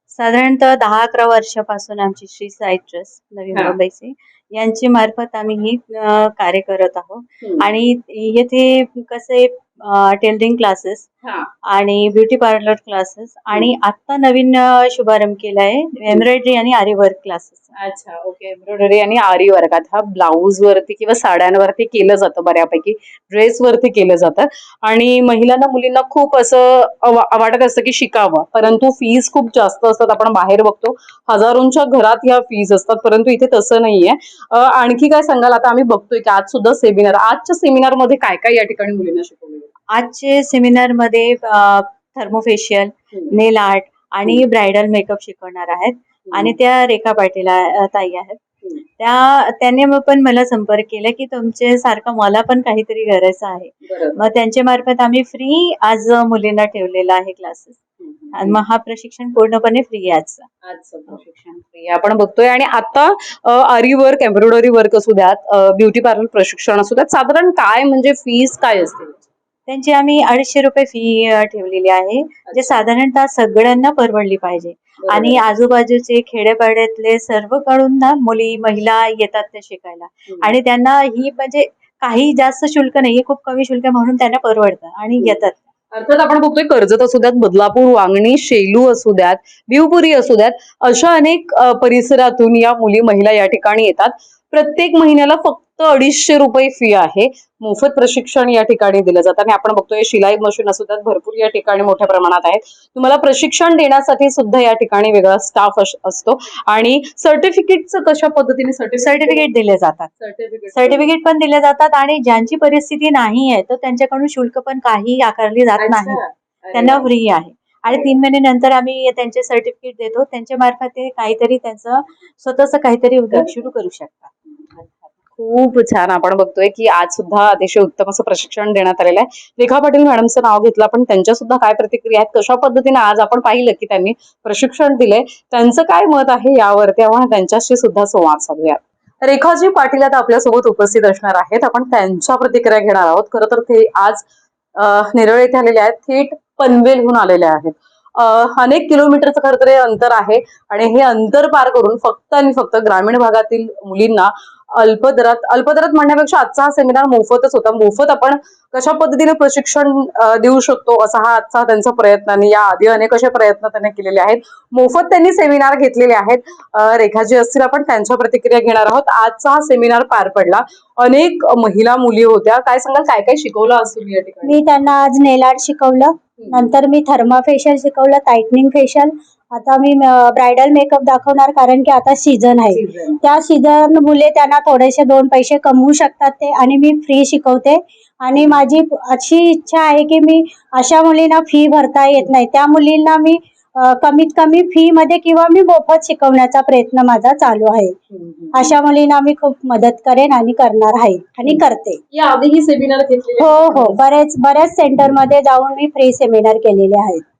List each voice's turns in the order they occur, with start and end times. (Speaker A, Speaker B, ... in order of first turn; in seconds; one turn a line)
Speaker A: 0.1-11.1
Speaker A: 11.7-17.7
Speaker B: 17.8-39.7
Speaker A: 39.9-48.4
Speaker B: 46.3-46.5
Speaker A: 49.0-57.8
Speaker B: 53.9-54.2
Speaker B: 58.0-58.6
Speaker A: 58.3-60.5
Speaker B: 60.7-69.2
Speaker A: 69.7-85.6
Speaker B: 72.5-72.8
Speaker B: 75.0-75.4
Speaker B: 85.9-109.5
Speaker A: 109.0-110.2
Speaker B: 110.2-111.1
Speaker A: 110.7-116.2
Speaker B: 115.8-117.1
Speaker A: 116.7-124.3
Speaker B: 117.9-118.2
Speaker B: 123.3-123.7
Speaker B: 124.8-144.2
Speaker B: 144.8-174.6
Speaker C: 174.4-197.9
Speaker B: 176.4-176.7
Speaker B: 182.7-183.2
Speaker B: 198.1-198.7
Speaker C: 198.5-202.0
Speaker B: 202.1-204.0
Speaker C: 203.4-207.2